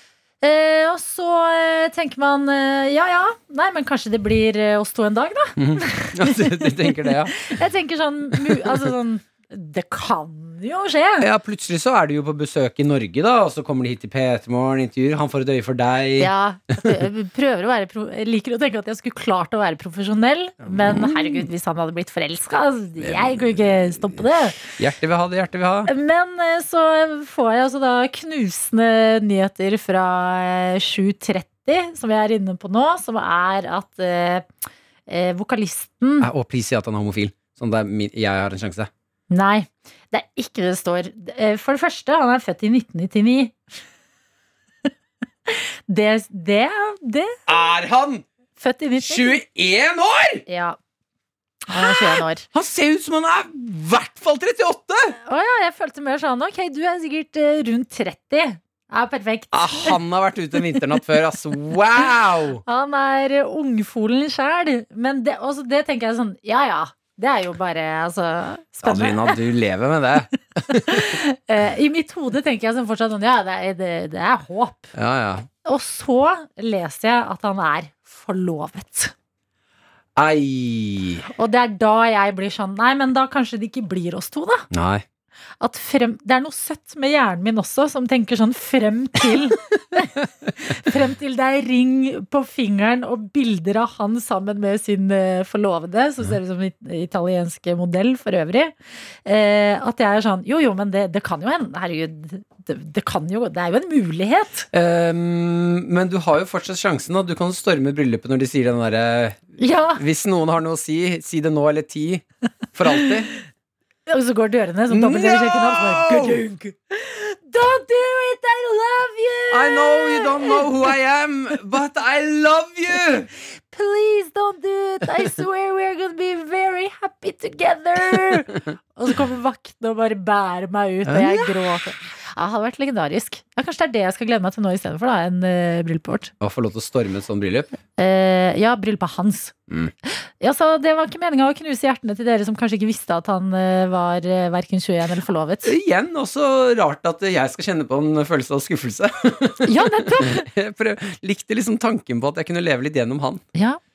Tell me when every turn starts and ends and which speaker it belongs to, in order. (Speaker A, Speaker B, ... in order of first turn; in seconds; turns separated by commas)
Speaker A: 0.4-11.3, Speaker B: 5.6-7.5, Speaker B: 11.2-16.9, Speaker A: 16.2-24.6, Speaker B: 20.6-21.5, Speaker B: 23.0-25.9, Speaker A: 25.9-34.5, Speaker A: 35.1-36.3, Speaker B: 36.2-38.9, Speaker A: 39.3-43.6, Speaker A: 45.5-47.4, Speaker B: 47.5-48.2, Speaker A: 48.6-49.4, Speaker B: 49.0-50.4, Speaker A: 50.5-50.8, Speaker A: 51.7-52.5, Speaker B: 51.8-55.1, Speaker A: 55.3-60.0, Speaker B: 59.5-62.6, Speaker A: 62.7-69.4, Speaker B: 68.8-71.2, Speaker A: 70.7-74.9, Speaker B: 74.9-75.5, Speaker A: 75.7-79.1, Speaker B: 80.2-81.2, Speaker A: 81.4-84.7, Speaker B: 84.7-85.0, Speaker A: 85.6-98.7, Speaker A: 99.3-104.7, Speaker B: 104.7-113.3, Speaker A: 109.6-110.0, Speaker A: 114.1-120.9, Speaker B: 114.9-116.4, Speaker B: 119.5-123.3, Speaker A: 123.7-136.3, Speaker B: 131.1-131.8, Speaker B: 136.4-137.7, Speaker A: 138.0-139.5, Speaker A: 140.1-145.7, Speaker B: 145.7-153.4, Speaker A: 149.6-150.5